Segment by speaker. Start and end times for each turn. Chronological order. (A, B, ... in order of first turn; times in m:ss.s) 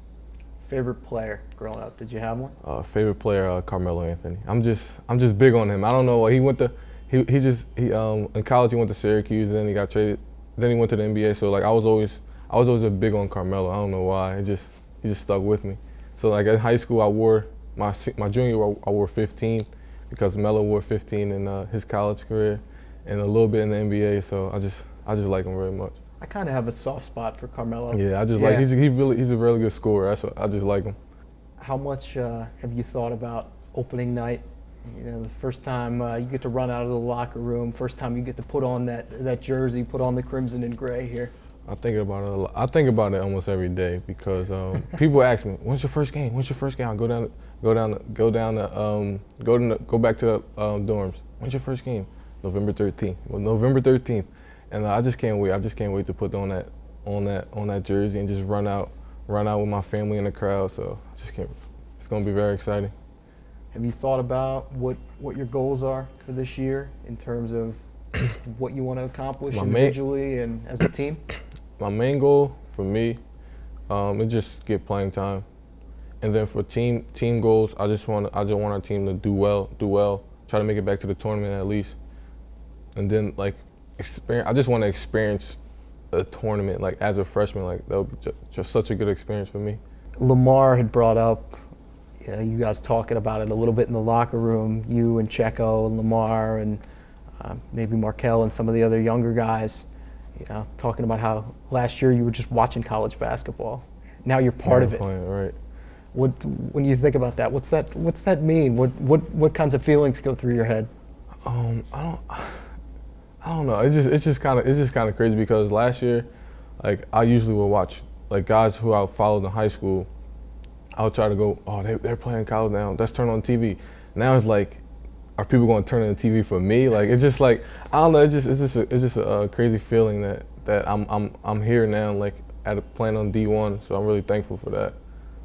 0:00.6-0:02.6 A
0:02.6-0:26.0 B
0:26.2-0:28.7 A
0:27.9-0:31.0 B
0:31.6-0:41.3 A
0:41.7-1:02.9 B
1:03.7-1:11.2 A
1:09.5-1:10.0 B
1:11.8-1:13.2 B
1:13.9-1:15.4 B
1:16.2-1:22.0 B
1:23.0-1:25.6 B
1:26.1-1:29.8 B
1:30.2-1:31.6 A
1:32.2-1:36.8 A
1:37.4-1:39.9 A
1:40.4-1:45.0 A
1:44.6-1:45.6 B
1:46.1-1:50.9 A
1:51.4-1:52.7 B
1:53.4-1:56.3 B
1:56.8-2:00.1 B
2:01.0-2:04.8 B
2:05.4-2:15.0 B